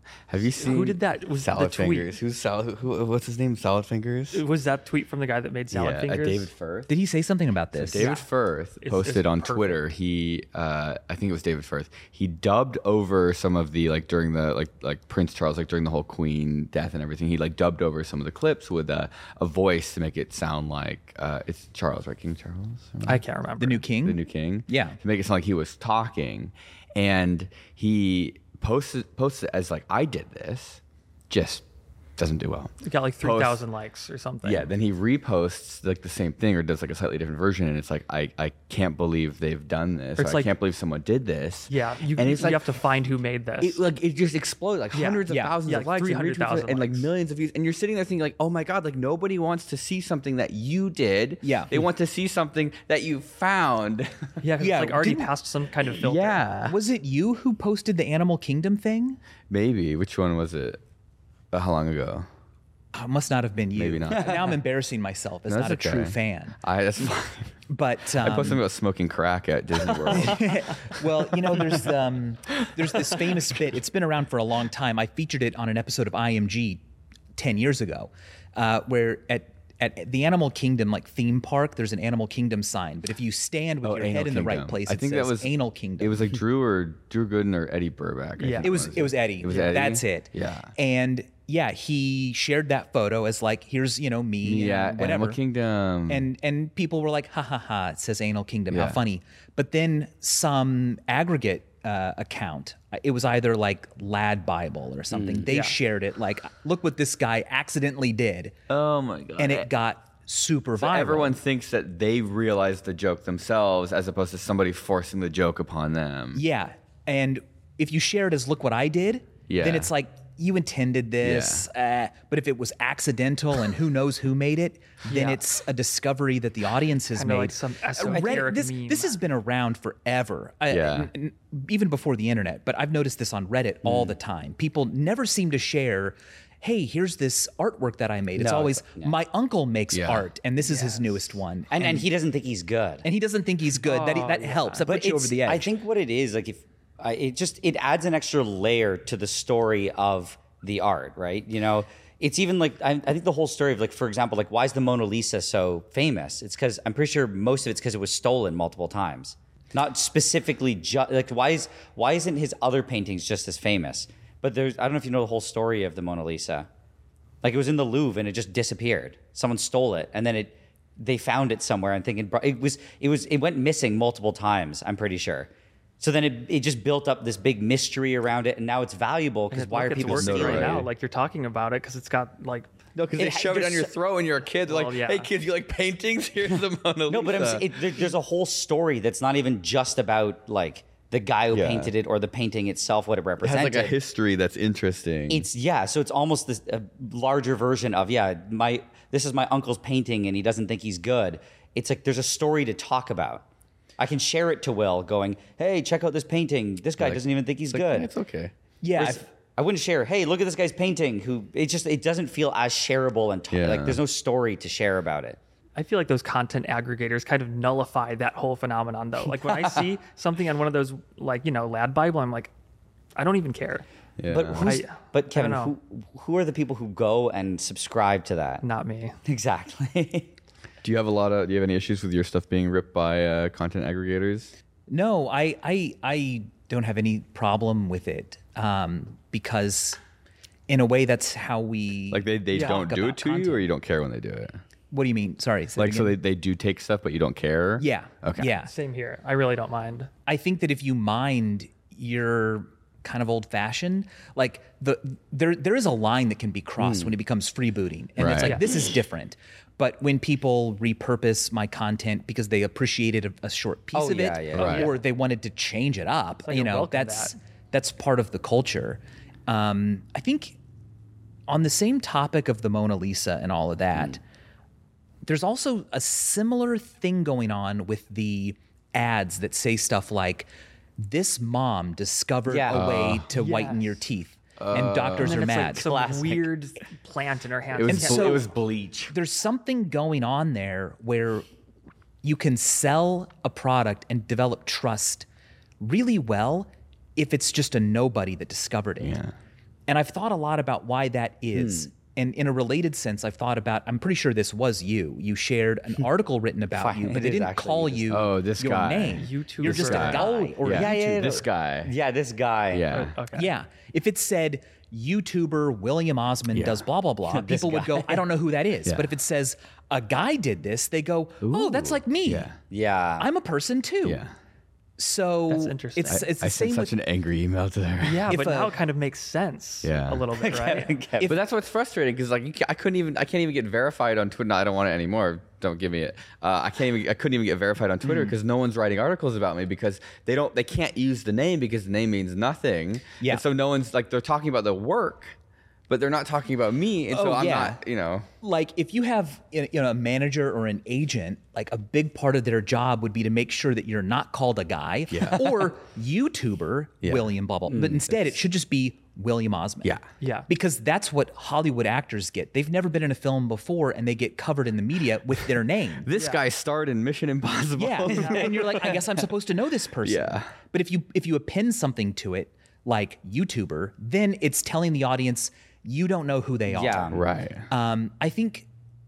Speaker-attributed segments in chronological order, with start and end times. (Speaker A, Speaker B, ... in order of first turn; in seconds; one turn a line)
Speaker A: 0.3-4.4
Speaker B: 0.6-2.1
Speaker B: 4.3-6.5
Speaker A: 5.7-6.9
Speaker C: 6.9-8.1
Speaker A: 7.7-23.2
Speaker B: 8.0-8.3
Speaker B: 8.8-9.8
Speaker B: 23.1-23.8
Speaker C: 23.6-25.0
Speaker A: 24.0-31.6
Speaker A: 32.2-33.6
Speaker B: 32.8-34.7
Speaker A: 34.4-42.6
Speaker B: 40.2-40.5
Speaker B: 41.7-43.8
Speaker A: 43.6-54.4
Speaker B: 44.9-47.1
Speaker C: 45.3-45.5
Speaker C: 51.4-51.8
Speaker B: 54.4-56.5
Speaker C: 54.6-55.3
Speaker A: 55.9-56.8
Speaker C: 56.6-59.2
Speaker A: 59.5-60.8
Speaker A: 61.5-62.3
Speaker C: 62.9-66.6
Speaker A: 63.8-64.6
Speaker A: 65.5-67.6
Speaker C: 67.7-68.6
Speaker A: 68.2-70.8
Speaker C: 70.1-76.8
Speaker C: 77.4-86.3
Speaker A: 83.8-90.7
Speaker B: 88.4-88.7
Speaker C: 88.6-95.4
Speaker A: 94.4-96.3
Speaker C: 96.1-108.6
Speaker A: 98.7-99.0
Speaker D: 105.1-105.5
Speaker B: 105.5-105.8
Speaker A: 108.7-109.7
Speaker C: 109.4-111.4
Speaker A: 110.8-116.4
Speaker C: 116.3-142.1
Speaker A: 119.5-119.9
Speaker A: 121.2-121.7
Speaker B: 125.1-125.4
Speaker B: 127.2-129.2
Speaker D: 128.1-128.4
Speaker A: 130.7-131.1
Speaker D: 133.8-134.1
Speaker D: 138.4-139.1
Speaker A: 139.9-140.3
Speaker B: 140.6-141.1
Speaker D: 141.7-143.1
Speaker C: 143.0-145.7
Speaker B: 143.8-144.8
Speaker D: 144.9-166.7
Speaker D: 167.4-180.9
Speaker B: 179.5-182.7
Speaker A: 180.1-180.9
Speaker A: 182.9-188.1
Speaker D: 183.2-183.9
Speaker B: 184.7-185.3
Speaker D: 187.1-193.9
Speaker A: 191.5-191.9
Speaker A: 193.4-195.5
Speaker D: 195.3-203.4
Speaker D: 204.0-208.1
Speaker A: 207.0-208.5
Speaker C: 208.8-209.2
Speaker D: 209.0-215.4
Speaker A: 213.5-214.0
Speaker B: 215.8-222.5
Speaker B: 223.2-223.9
Speaker A: 224.2-224.8
Speaker D: 224.3-228.6
Speaker B: 224.6-225.8
Speaker B: 228.6-229.2
Speaker D: 229.2-230.3
Speaker A: 230.8-234.5
Speaker C: 234.9-240.0
Speaker C: 240.7-243.7
Speaker A: 242.1-244.6
Speaker B: 242.5-242.8
Speaker C: 244.9-246.2
Speaker A: 245.8-248.5
Speaker C: 247.8-248.7
Speaker B: 248.7-250.1
Speaker C: 250.3-270.6
Speaker D: 256.8-257.1
Speaker A: 258.2-258.6
Speaker D: 263.9-264.9
Speaker A: 264.5-264.9
Speaker B: 266.5-267.3
Speaker C: 271.5-274.2
Speaker C: 275.2-280.5
Speaker C: 281.0-285.9
Speaker D: 282.5-282.9
Speaker A: 282.7-283.3
Speaker B: 283.3-284.0
Speaker A: 284.6-285.4
Speaker B: 285.2-288.5
Speaker D: 285.6-286.5
Speaker A: 287.7-289.1
Speaker C: 287.9-288.5
Speaker C: 289.1-291.5
Speaker C: 292.2-295.3
Speaker C: 295.8-299.2
Speaker A: 299.0-299.3
Speaker C: 299.9-311.4
Speaker D: 301.5-301.9
Speaker D: 306.7-308.2
Speaker A: 308.1-311.9
Speaker B: 309.2-310.4
Speaker D: 309.9-312.9
Speaker A: 312.7-313.1
Speaker B: 312.9-313.5
Speaker C: 313.3-322.5
Speaker A: 316.5-316.9
Speaker D: 317.3-318.2
Speaker A: 321.4-322.6
Speaker D: 322.7-323.3
Speaker C: 323.2-324.2
Speaker A: 324.0-324.3
Speaker C: 325.0-326.9
Speaker B: 325.5-326.2
Speaker A: 326.1-328.4
Speaker B: 328.0-331.0
Speaker C: 328.3-328.8
Speaker A: 329.8-330.3
Speaker D: 330.4-331.4
Speaker A: 331.2-345.4
Speaker A: 345.9-348.3
Speaker C: 347.1-347.8
Speaker C: 348.4-360.0
Speaker A: 355.1-355.7
Speaker A: 357.0-357.3
Speaker B: 360.2-360.5
Speaker C: 360.5-366.1
Speaker A: 366.0-369.1
Speaker B: 366.1-366.4
Speaker C: 367.8-378.7
Speaker B: 368.1-368.5
Speaker A: 370.0-370.5
Speaker D: 376.7-377.2
Speaker A: 377.1-377.7